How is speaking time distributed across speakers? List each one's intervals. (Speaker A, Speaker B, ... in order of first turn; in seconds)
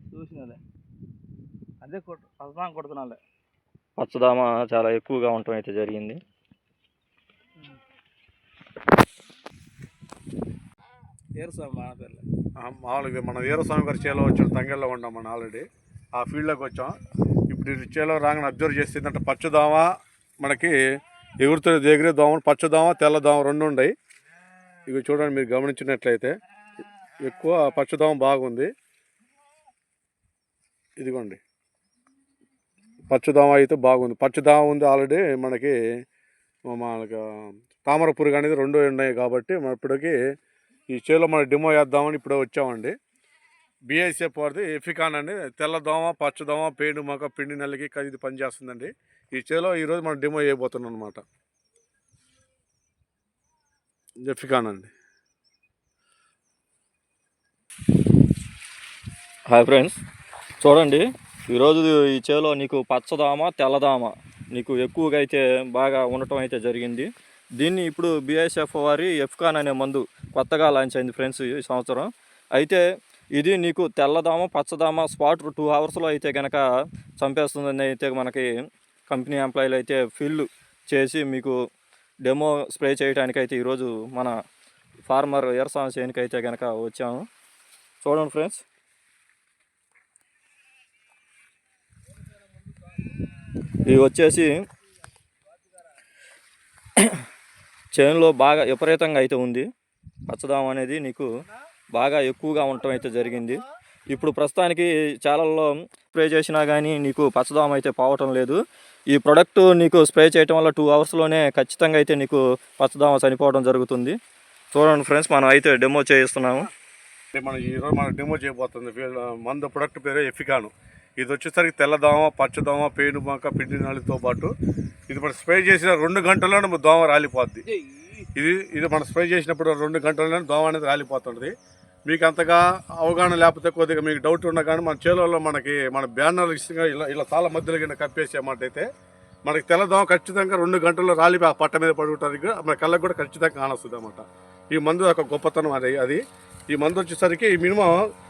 Speaker A: 0.1-0.6, 1.8-3.2, 11.4-12.2
Speaker B: 4.0-6.2, 59.5-60.0, 60.6-72.8, 73.4-76.6, 77.2-78.5, 79.1-81.5, 82.2-84.3, 85.1-87.2, 88.0-88.6, 93.9-94.5, 98.0-99.7, 100.3-101.3, 101.9-108.6, 109.1-114.2, 114.7-116.7
Speaker C: 12.6-16.9, 17.5-19.9, 20.4-20.8, 21.4-23.9, 24.9-26.3, 27.2-28.7, 31.0-31.4, 33.1-35.8, 36.7-37.2, 37.8-40.1, 40.9-42.9, 43.9-51.2, 54.2-54.9, 117.3-124.5, 125.1-127.6, 128.3-131.5, 132.1-138.8, 139.5-146.2, 146.7-148.0